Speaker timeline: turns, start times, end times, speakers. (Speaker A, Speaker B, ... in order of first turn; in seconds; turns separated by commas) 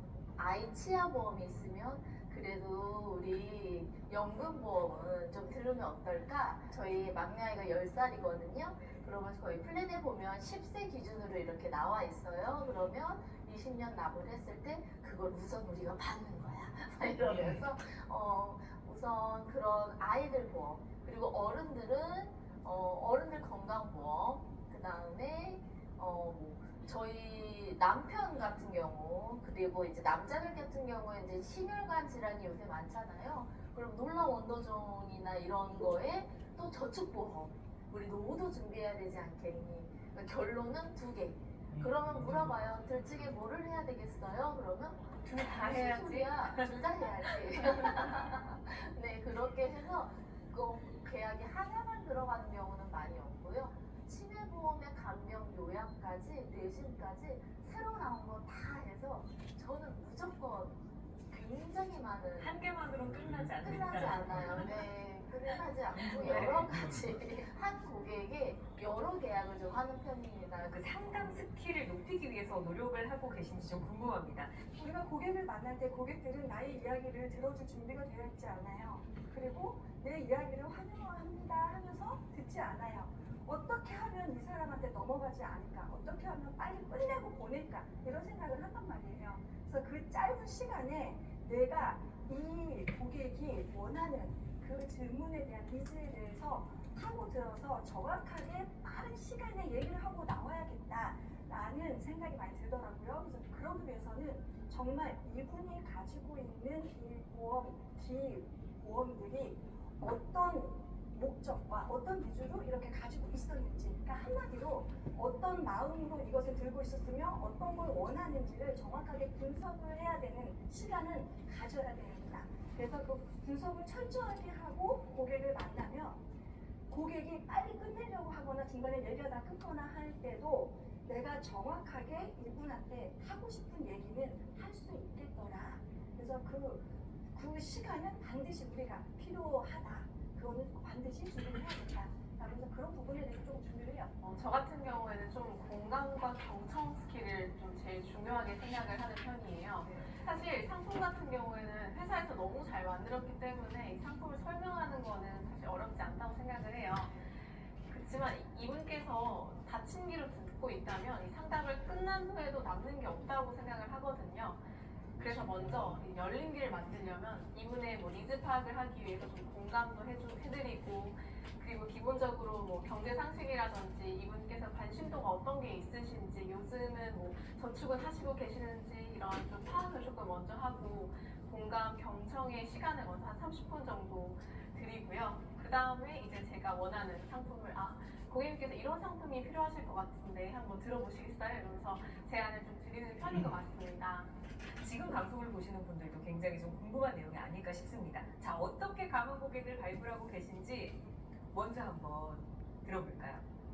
Speaker A: 0.4-60.8, Speaker B: 45.2-48.1, Speaker A: 61.3-62.6, Speaker B: 62.4-64.8, Speaker A: 63.6-71.4, Speaker B: 66.0-66.8, Speaker B: 70.7-74.5, Speaker C: 74.8-126.2, Speaker C: 126.9-144.1, Speaker D: 144.2-157.2, Speaker D: 157.9-164.6, Speaker D: 165.2-194.3, Speaker B: 194.8-203.4